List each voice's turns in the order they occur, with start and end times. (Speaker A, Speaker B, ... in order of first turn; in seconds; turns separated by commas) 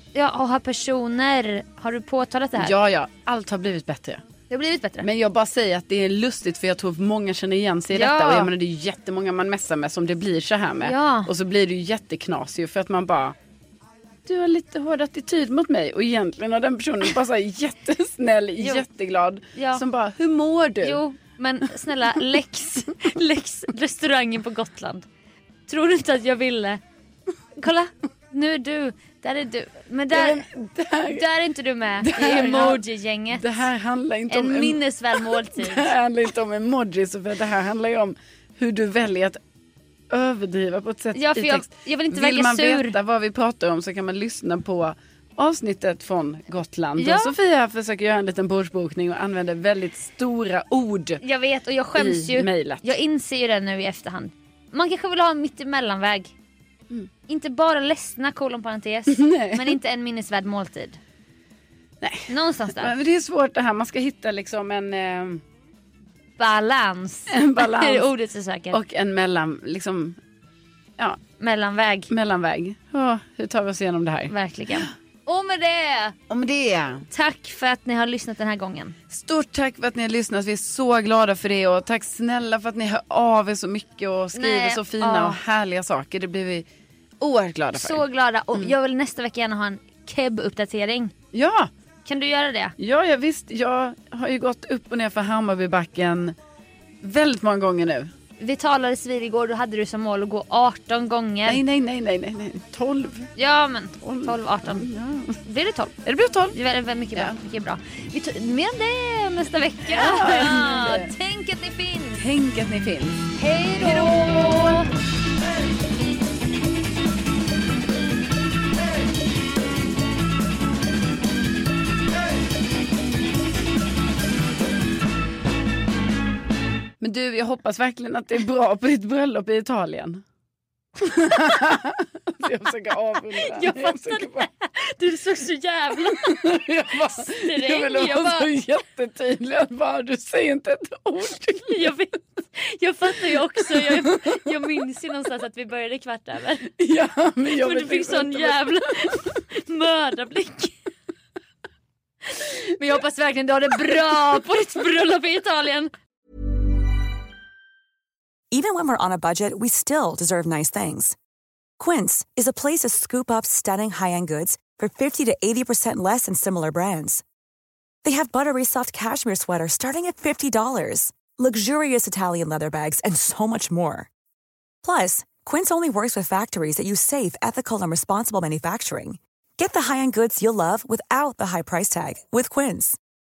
Speaker A: 0.1-2.7, Speaker B: 2.6-4.2, Speaker A: 4.5-5.1, Speaker B: 5.0-13.3, Speaker A: 7.9-8.5, Speaker A: 10.8-11.3, Speaker B: 14.2-21.0, Speaker A: 18.6-18.8, Speaker A: 19.6-19.8, Speaker A: 20.8-25.1, Speaker A: 25.7-26.8, Speaker A: 27.6-30.4, Speaker B: 30.1-31.2, Speaker A: 31.1-33.6, Speaker B: 32.0-39.4, Speaker A: 34.3-35.9, Speaker B: 40.1-51.2, Speaker A: 41.1-43.0, Speaker A: 47.0-47.3, Speaker A: 51.2-56.3, Speaker B: 52.0-52.9, Speaker A: 57.3-61.0, Speaker B: 59.1-59.7, Speaker B: 62.0-65.4, Speaker A: 62.3-62.9, Speaker A: 66.4-68.8, Speaker B: 67.3-68.1, Speaker B: 68.7-70.2, Speaker A: 71.4-72.1, Speaker B: 72.1-74.9, Speaker A: 74.3-76.2, Speaker B: 76.3-77.1, Speaker A: 77.1-78.9, Speaker B: 79.1-86.7, Speaker A: 84.3-85.4, Speaker B: 87.2-88.8, Speaker A: 87.7-91.1, Speaker B: 91.3-91.7, Speaker A: 92.0-92.8, Speaker B: 92.8-96.3, Speaker B: 97.0-98.1, Speaker A: 98.4-101.6, Speaker B: 101.5-103.3, Speaker A: 103.4-104.9, Speaker B: 104.0-105.4, Speaker A: 105.5-106.0, Speaker B: 106.0-106.6, Speaker A: 106.5-112.2, Speaker B: 109.9-111.1, Speaker B: 112.2-114.2, Speaker A: 113.4-114.9, Speaker B: 127.0-130.2, Speaker B: 131.0-134.5, Speaker A: 133.4-138.5, Speaker B: 136.1-141.9, Speaker A: 141.7-146.7, Speaker B: 143.6-144.5, Speaker B: 146.8-148.8, Speaker A: 147.5-150.7, Speaker A: 152.3-155.9, Speaker C: 158.5-161.2, Speaker C: 161.8-167.2, Speaker C: 168.0-174.1, Speaker C: 174.8-183.0